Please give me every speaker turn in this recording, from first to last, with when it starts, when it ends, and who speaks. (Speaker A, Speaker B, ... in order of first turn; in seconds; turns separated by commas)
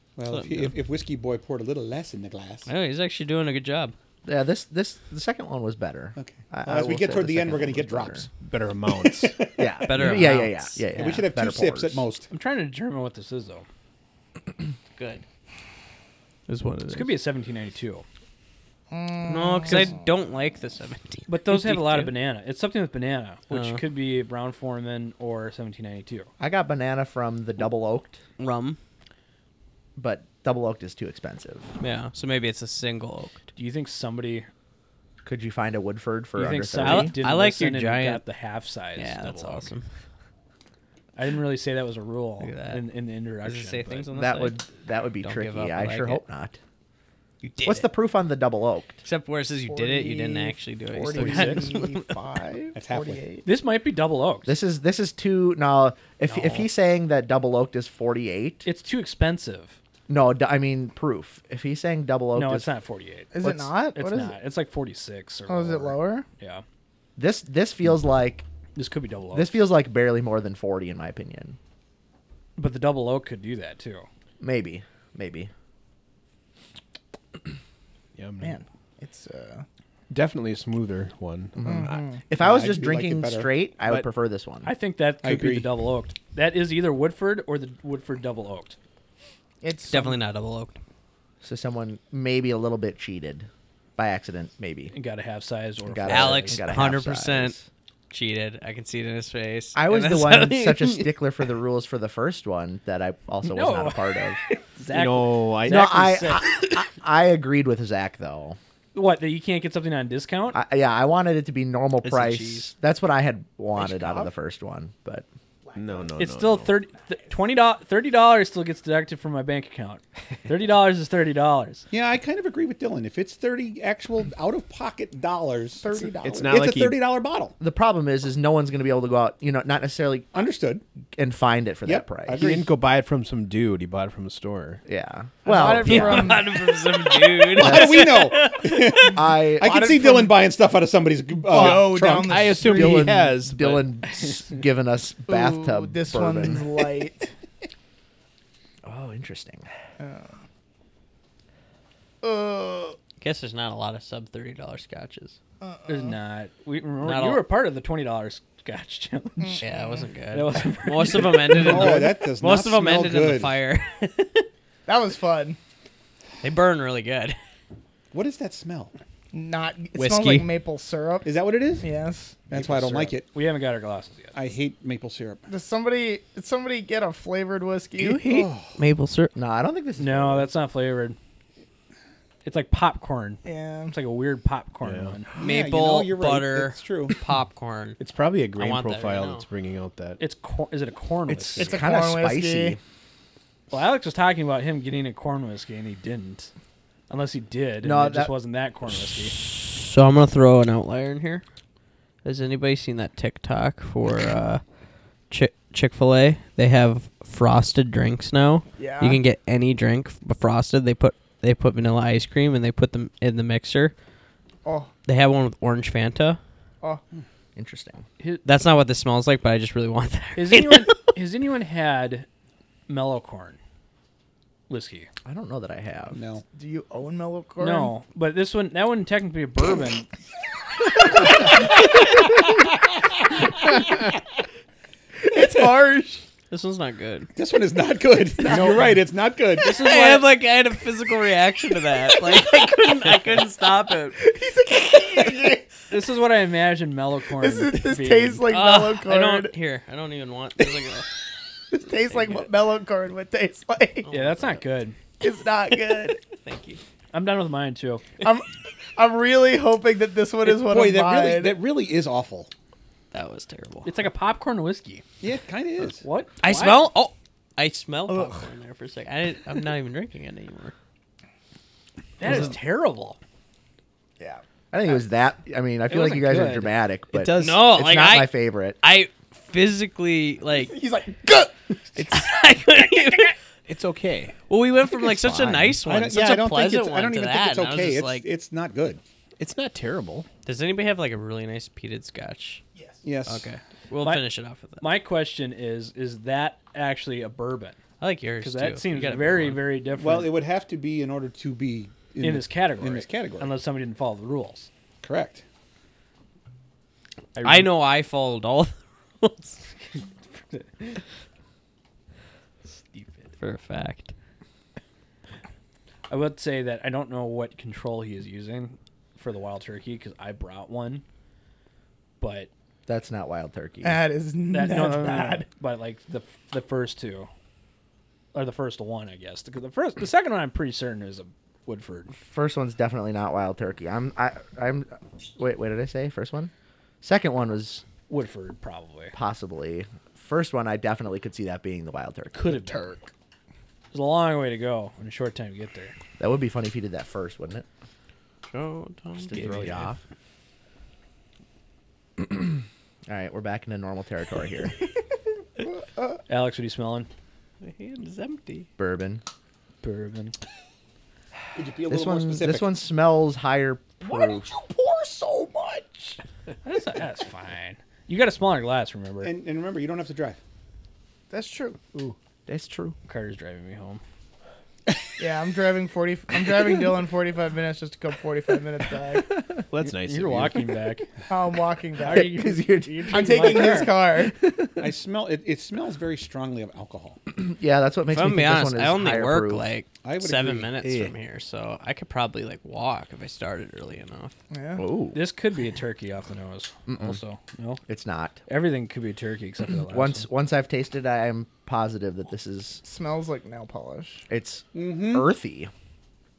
Speaker A: 0.2-2.7, Speaker B: 0.3-0.7, Speaker B: 2.7-3.9, Speaker C: 4.2-8.3, Speaker A: 6.2-8.3, Speaker D: 8.3-9.4, Speaker A: 8.9-10.2, Speaker C: 9.6-12.0, Speaker B: 9.8-11.0, Speaker A: 10.9-12.3, Speaker E: 12.3-13.7, Speaker B: 14.9-15.2, Speaker B: 16.5-17.2, Speaker E: 16.9-18.0, Speaker F: 18.9-20.0, Speaker B: 19.2-22.1, Speaker E: 19.7-19.9, Speaker E: 21.3-26.3, Speaker B: 23.5-23.8, Speaker C: 26.4-28.2, Speaker B: 28.4-28.8, Speaker C: 29.9-31.7, Speaker B: 31.8-33.4, Speaker E: 33.5-34.5, Speaker C: 35.2-37.2, Speaker E: 36.4-39.7, Speaker B: 36.8-38.2, Speaker B: 39.0-39.9, Speaker E: 41.1-44.1, Speaker B: 42.4-42.8, Speaker B: 43.4-44.6, Speaker C: 44.1-46.6, Speaker B: 45.2-46.2, Speaker B: 47.4-47.9, Speaker C: 47.6-49.0, Speaker B: 49.0-52.1, Speaker F: 49.7-53.5, Speaker E: 51.1-51.6, Speaker A: 52.7-53.2, Speaker E: 53.4-54.5, Speaker C: 54.5-58.7, Speaker E: 58.6-59.8, Speaker C: 60.1-62.7, Speaker E: 62.3-66.6, Speaker F: 63.3-64.3, Speaker F: 65.5-66.2, Speaker C: 67.2-68.4, Speaker E: 68.8-69.6, Speaker C: 69.3-71.6, Speaker E: 72.6-74.1, Speaker C: 74.4-75.5, Speaker D: 78.2-78.5, Speaker F: 78.4-79.6, Speaker D: 80.1-82.1, Speaker C: 81.6-84.7, Speaker F: 81.6-82.3, Speaker A: 82.3-83.5, Speaker E: 84.6-88.8, Speaker A: 85.2-85.7, Speaker F: 89.6-90.2, Speaker B: 89.9-90.8, Speaker C: 91.4-94.9, Speaker E: 94.9-96.6, Speaker C: 95.8-97.7, Speaker B: 96.1-97.5, Speaker B: 98.1-101.2, Speaker C: 99.7-104.4, Speaker E: 103.4-106.5, Speaker D: 104.9-106.0, Speaker C: 105.7-108.6, Speaker E: 108.9-110.6, Speaker C: 110.5-115.2, Speaker B: 112.0-112.7, Speaker F: 113.8-114.3, Speaker D: 115.7-116.7, Speaker E: 116.2-121.8, Speaker A: 121.9-125.8, Speaker F: 125.8-126.6, Speaker D: 126.2-127.0, Speaker A: 126.4-127.5, Speaker C: 127.6-130.4, Speaker A: 130.3-130.8, Speaker C: 131.1-132.5, Speaker A: 131.8-132.7, Speaker D: 132.3-134.8, Speaker C: 134.8-136.4, Speaker F: 135.4-136.7, Speaker B: 135.8-139.2, Speaker A: 137.5-142.8, Speaker C: 137.6-138.0, Speaker C: 139.1-139.8, Speaker F: 139.6-140.4, Speaker F: 141.5-143.1, Speaker D: 141.5-143.9, Speaker C: 142.6-146.8, Speaker F: 145.3-147.3, Speaker C: 148.8-149.7, Speaker F: 150.0-150.3, Speaker F: 152.2-153.0, Speaker B: 153.2-155.3, Speaker F: 155.6-156.1, Speaker E: 155.9-159.6, Speaker B: 157.0-157.4, Speaker F: 159.4-160.0, Speaker B: 159.6-164.5, Speaker E: 160.3-162.0, Speaker A: 161.5-163.6, Speaker F: 164.9-165.6, Speaker B: 166.4-167.4, Speaker A: 168.1-168.9, Speaker F: 169.3-172.4, Speaker B: 170.0-170.4, Speaker A: 171.2-171.8, Speaker A: 172.5-173.3, Speaker E: 173.3-174.3, Speaker A: 174.3-175.4, Speaker F: 175.5-178.3, Speaker B: 178.0-179.3, Speaker A: 178.2-178.8, Speaker C: 179.3-180.5, Speaker E: 180.0-181.2, Speaker E: 182.4-185.3, Speaker F: 183.4-183.9, Speaker D: 184.8-185.2, Speaker A: 185.4-187.2, Speaker B: 185.4-188.0, Speaker D: 188.0-190.2, Speaker B: 188.6-189.4, Speaker E: 190.2-191.8, Speaker C: 191.3-192.8, Speaker F: 191.6-192.8, Speaker E: 193.7-196.5, Speaker E: 197.1-199.3, Speaker C: 197.8-198.3, Speaker B: 199.3-201.4, Speaker B: 202.2-204.6, Speaker B: 205.3-213.9, Speaker F: 208.8-209.2, Speaker F: 214.6-214.9, Speaker B: 215.1-216.4, Speaker C: 217.6-218.0, Speaker E: 218.2-218.4, Speaker B: 218.4-220.9, Speaker E: 220.3-222.3, Speaker E: 222.9-223.6, Speaker E: 224.7-225.1, Speaker C: 225.2-226.2, Speaker A: 226.1-226.4, Speaker F: 226.5-227.9, Speaker E: 227.6-230.1, Speaker F: 235.2-236.2, Speaker B: 236.5-237.3, Speaker A: 237.3-239.8, Speaker F: 238.5-238.8, Speaker E: 239.6-240.2, Speaker B: 239.6-244.2, Speaker F: 244.2-245.6, Speaker E: 245.9-248.4, Speaker F: 247.4-249.5, Speaker B: 248.5-251.1, Speaker F: 251.7-254.1, Speaker B: 252.1-252.5, Speaker B: 254.1-254.4, Speaker E: 254.1-255.0, Speaker F: 255.2-256.2, Speaker B: 255.7-256.8, Speaker E: 257.1-258.0, Speaker F: 258.2-261.6, Speaker A: 260.4-262.5, Speaker B: 263.1-263.9, Speaker E: 263.8-265.0, Speaker A: 265.2-266.0, Speaker E: 266.0-266.8, Speaker B: 266.4-270.7, Speaker F: 268.1-268.4, Speaker E: 272.2-273.2, Speaker C: 274.7-278.8, Speaker E: 275.9-276.8, Speaker D: 277.1-277.6, Speaker B: 277.4-280.8, Speaker F: 280.5-281.5, Speaker B: 281.9-283.3, Speaker D: 283.7-284.4, Speaker B: 284.5-288.3, Speaker C: 285.1-285.8, Speaker A: 285.8-289.0, Speaker D: 289.4-290.3, Speaker B: 290.4-292.6, Speaker A: 293.0-293.5, Speaker B: 293.2-294.8, Speaker E: 294.0-294.2, Speaker E: 294.8-297.8, Speaker B: 298.0-299.7, Speaker E: 298.4-300.4, Speaker A: 299.9-303.5, Speaker E: 302.2-304.7, Speaker A: 305.0-305.4, Speaker E: 307.3-307.7, Speaker B: 307.4-310.0, Speaker E: 312.6-313.3, Speaker B: 313.4-314.1, Speaker E: 316.1-321.0, Speaker E: 322.2-322.5, Speaker C: 322.9-324.0, Speaker F: 323.8-325.5, Speaker E: 324.5-327.3, Speaker E: 328.3-332.1, Speaker C: 332.1-336.5, Speaker C: 337.0-337.8, Speaker E: 338.1-339.1, Speaker C: 339.1-342.7, Speaker E: 342.3-342.9, Speaker F: 342.4-343.1, Speaker E: 343.9-345.9, Speaker C: 346.2-347.6, Speaker B: 348.5-349.9, Speaker C: 349.2-350.0, Speaker E: 349.4-349.8, Speaker C: 352.2-354.8, Speaker E: 356.3-357.1, Speaker B: 357.6-358.7, Speaker C: 358.8-359.2, Speaker E: 359.8-360.3, Speaker A: 361.5-362.7, Speaker C: 361.9-364.5, Speaker F: 364.1-366.2, Speaker E: 366.6-369.3, Speaker A: 369.2-370.4, Speaker F: 371.3-371.9, Speaker C: 372.5-372.9, Speaker E: 373.1-374.0, Speaker F: 375.2-379.4, Speaker D: 379.7-380.6, Speaker E: 379.8-381.1, Speaker F: 381.3-382.5, Speaker C: 382.0-383.8, Speaker E: 382.0-383.9, Speaker F: 383.1-384.4, Speaker C: 384.4-384.9, Speaker A: 384.8-387.2, Speaker C: 387.3-389.7, Speaker B: 388.1-394.3, Speaker A: 390.0-390.7, Speaker D: 390.8-391.1, Speaker F: 394.5-394.8, Speaker C: 394.8-395.2, Speaker E: 395.1-397.8, Speaker C: 396.9-397.2, Speaker C: 397.9-398.4, Speaker E: 398.5-400.2, Speaker C: 399.9-402.8, Speaker F: 402.8-404.2, Speaker C: 404.3-405.7, Speaker A: 404.7-405.3